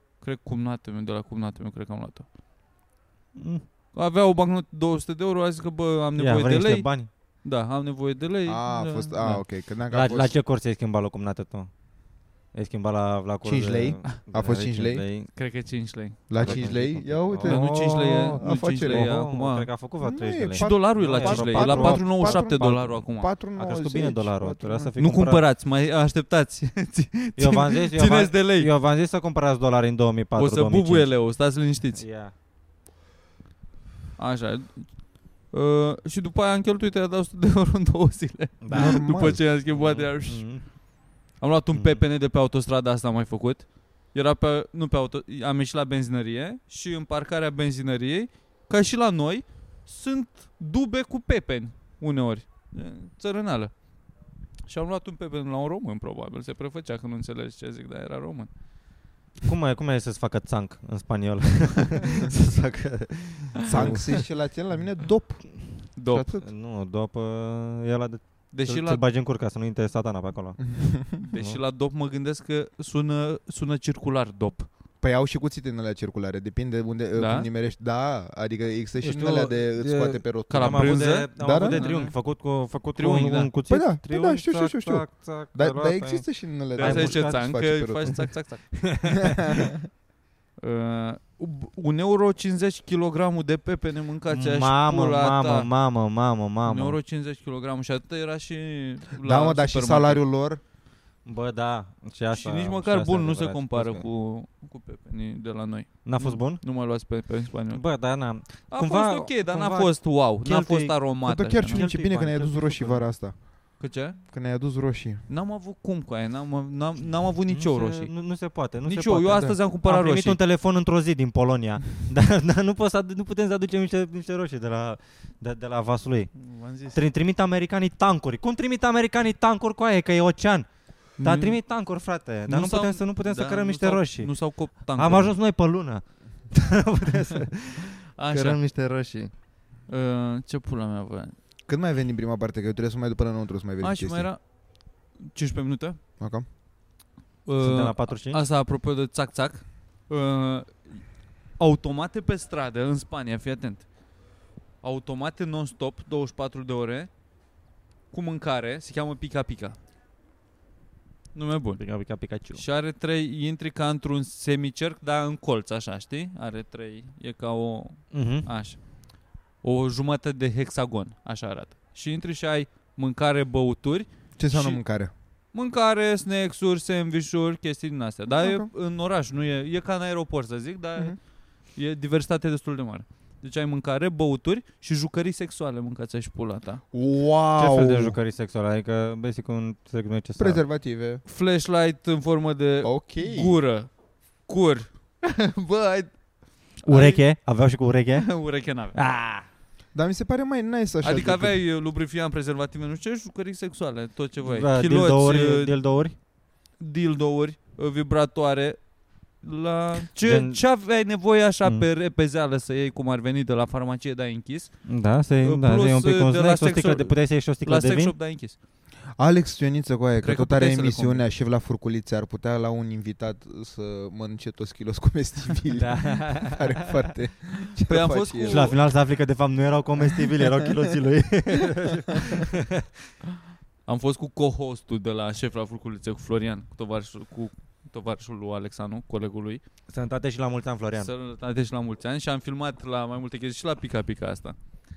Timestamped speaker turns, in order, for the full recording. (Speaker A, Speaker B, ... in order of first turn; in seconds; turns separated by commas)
Speaker A: 0.2-2.3, Speaker B: 3.4-3.6, Speaker A: 3.9-9.4, Speaker B: 6.2-7.1, Speaker C: 8.5-10.4, Speaker B: 9.9-11.7, Speaker B: 12.5-15.3, Speaker C: 13.4-15.0, Speaker A: 15.3-16.7, Speaker C: 16.3-19.1, Speaker B: 16.4-22.7, Speaker A: 17.4-19.7, Speaker C: 20.0-24.9, Speaker A: 20.6-23.3, Speaker B: 23.6-25.4, Speaker A: 25.0-28.7, Speaker B: 27.4-31.1, Speaker A: 30.4-32.0, Speaker B: 32.0-32.3, Speaker A: 34.2-34.9, Speaker A: 35.5-40.5, Speaker B: 38.6-39.0, Speaker C: 38.7-39.4, Speaker B: 39.7-40.7, Speaker A: 41.4-53.7, Speaker B: 41.7-42.0, Speaker A: 54.7-58.5, Speaker B: 59.5-64.2, Speaker C: 63.7-66.3, Speaker A: 66.0-66.4, Speaker B: 66.2-71.6, Speaker A: 68.5-69.0, Speaker C: 70.7-71.2, Speaker A: 71.2-74.7, Speaker C: 75.0-81.8, Speaker A: 77.2-77.5, Speaker B: 79.0-86.2, Speaker A: 80.5-82.2, Speaker A: 83.0-83.5, Speaker C: 83.7-88.3, Speaker A: 86.8-88.8, Speaker B: 86.8-87.5, Speaker B: 88.8-89.7, Speaker C: 89.2-89.8, Speaker A: 90.6-95.7, Speaker B: 94.3-97.0, Speaker A: 96.7-100.2, Speaker C: 99.2-100.6, Speaker B: 101.2-104.0, Speaker A: 102.3-107.8, Speaker B: 106.0-106.6, Speaker B: 107.7-111.0, Speaker A: 108.7-111.8, Speaker C: 111.2-113.4, Speaker B: 111.7-113.1, Speaker A: 113.8-114.2, Speaker C: 114.3-115.2, Speaker A: 115.3-118.1, Speaker B: 117.5-126.3, Speaker A: 118.9-120.4, Speaker A: 126.4-127.0, Speaker B: 126.9-134.3, Speaker A: 131.2-131.6, Speaker A: 132.5-135.3, Speaker B: 134.9-139.3, Speaker A: 138.2-138.6, Speaker A: 139.9-141.3, Speaker C: 141.7-144.3, Speaker A: 143.8-144.4, Speaker A: 145.2-146.0, Speaker C: 146.2-146.4, Speaker A: 147.5-151.0, Speaker B: 147.6-148.4, Speaker A: 151.6-153.9, Speaker A: 154.8-157.1, Speaker A: 158.1-159.8, Speaker A: 161.3-161.8, Speaker B: 161.8-162.6, Speaker A: 162.5-168.8, Speaker B: 168.1-168.5, Speaker A: 169.6-174.8, Speaker C: 174.4-175.1, Speaker A: 175.5-181.2, Speaker C: 178.3-178.7, Speaker A: 181.8-186.8, Speaker C: 186.9-188.2, Speaker B: 187.6-190.6, Speaker C: 190.4-191.2, Speaker A: 191.3-193.9, Speaker C: 192.8-193.6, Speaker A: 194.5-196.1, Speaker A: 196.8-197.2, Speaker B: 196.9-198.3, Speaker A: 198.2-199.0, Speaker B: 198.9-199.5, Speaker C: 199.9-201.6, Speaker A: 201.0-205.8, Speaker B: 204.4-206.2, Speaker A: 206.8-208.8, Speaker A: 209.4-214.8, Speaker B: 210.2-210.6, Speaker B: 214.9-218.2, Speaker A: 215.4-218.6, Speaker C: 219.2-228.7, Speaker A: 220.2-221.2, Speaker B: 225.8-226.8, Speaker A: 227.9-228.8, Speaker B: 228.5-232.9, Speaker A: 233.9-239.6, Speaker B: 239.9-241.1, Speaker A: 241.0-244.6